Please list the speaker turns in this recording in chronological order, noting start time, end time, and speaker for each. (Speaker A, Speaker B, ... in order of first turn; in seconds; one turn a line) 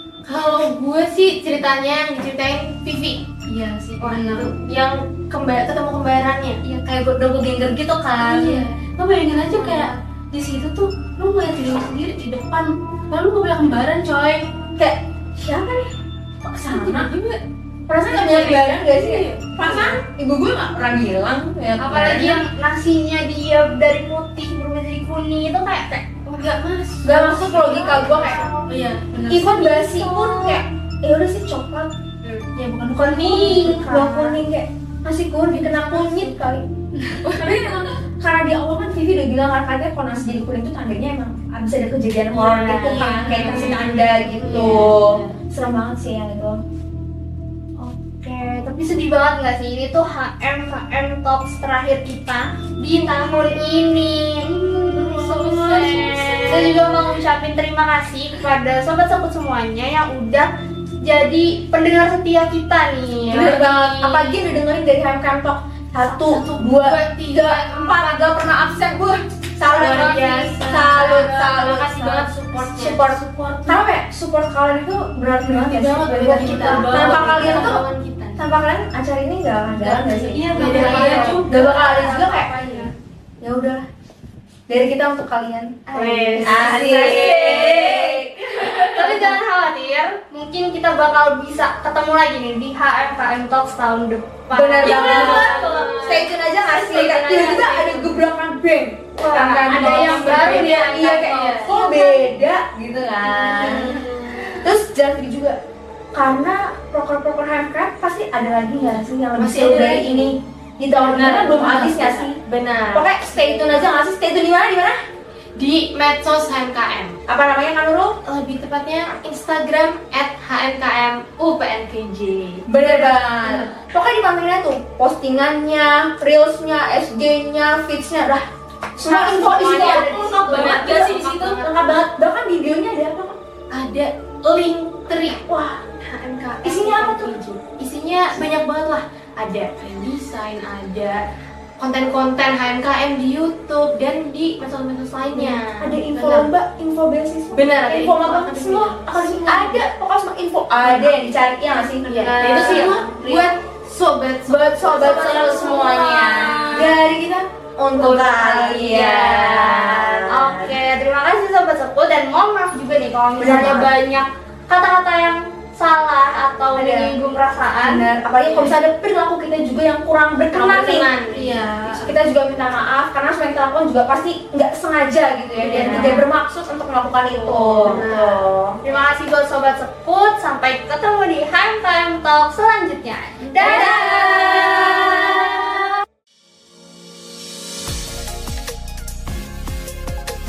Speaker A: 0.2-6.6
Speaker A: 8.1-14.5
Speaker B: 14.8-15.9
Speaker B: 16.4-17.1
Speaker A: 16.7-17.4
Speaker B: 17.9-22.4
Speaker A: 18.1-20.0
Speaker C: 21.8-26.0
Speaker A: 22.1-22.3
Speaker A: 26.2-29.4
Speaker B: 27.0-28.7
Speaker B: 29.3-31.9
Speaker C: 29.4-30.6
Speaker A: 32.2-33.7
Speaker C: 33.0-34.4
Speaker B: 33.0-36.6
Speaker A: 35.5-36.2
Speaker A: 37.2-37.9
Speaker B: 37.4-46.6
Speaker A: 42.3-45.4
Speaker C: 47.8-55.8
Speaker A: 54.9-56.9
Speaker B: 55.3-56.5
Speaker C: 56.5-60.5
Speaker C: 61.0-63.6
Speaker A: 63.2-64.3
Speaker B: 63.3-77.8
Speaker A: 66.2-68.3
Speaker A: 69.7-73.8
Speaker A: 75.4-78.4
Speaker B: 78.4-82.5
Speaker A: 79.8-81.6
Speaker C: 80.6-82.9
Speaker B: 83.4-83.8
Speaker B: 84.7-85.8
Speaker C: 85.9-87.9
Speaker A: 86.0-88.1
Speaker B: 86.4-89.4
Speaker C: 88.5-96.0
Speaker B: 94.5-104.0
Speaker A: 94.8-96.3
Speaker A: 96.9-98.1
Speaker C: 99.2-102.3
Speaker A: 99.4-101.7
Speaker A: 103.4-104.6
Speaker B: 104.6-105.6
Speaker B: 106.1-112.4
Speaker A: 109.3-110.3
Speaker A: 111.0-113.9
Speaker B: 112.9-115.0
Speaker A: 115.5-117.2
Speaker B: 117.3-118.2
Speaker A: 118.2-123.8
Speaker B: 122.7-128.4
Speaker B: 129.0-133.3
Speaker A: 129.1-131.9
Speaker A: 133.7-141.2
Speaker B: 136.6-137.4
Speaker A: 141.8-146.5
Speaker B: 145.3-153.4
Speaker A: 147.5-149.8
Speaker A: 150.8-151.1
Speaker A: 152.0-157.0
Speaker B: 154.5-160.7
Speaker C: 155.2-156.8
Speaker A: 158.0-159.9
Speaker C: 160.3-168.1
Speaker B: 163.4-163.9
Speaker B: 166.7-167.2
Speaker B: 167.8-171.1
Speaker A: 168.4-168.7
Speaker A: 170.5-172.2
Speaker B: 171.8-178.8
Speaker A: 175.6-176.2
Speaker C: 175.7-176.2
Speaker A: 177.4-178.4
Speaker C: 178.8-184.1
Speaker B: 183.6-185.8
Speaker A: 183.6-184.8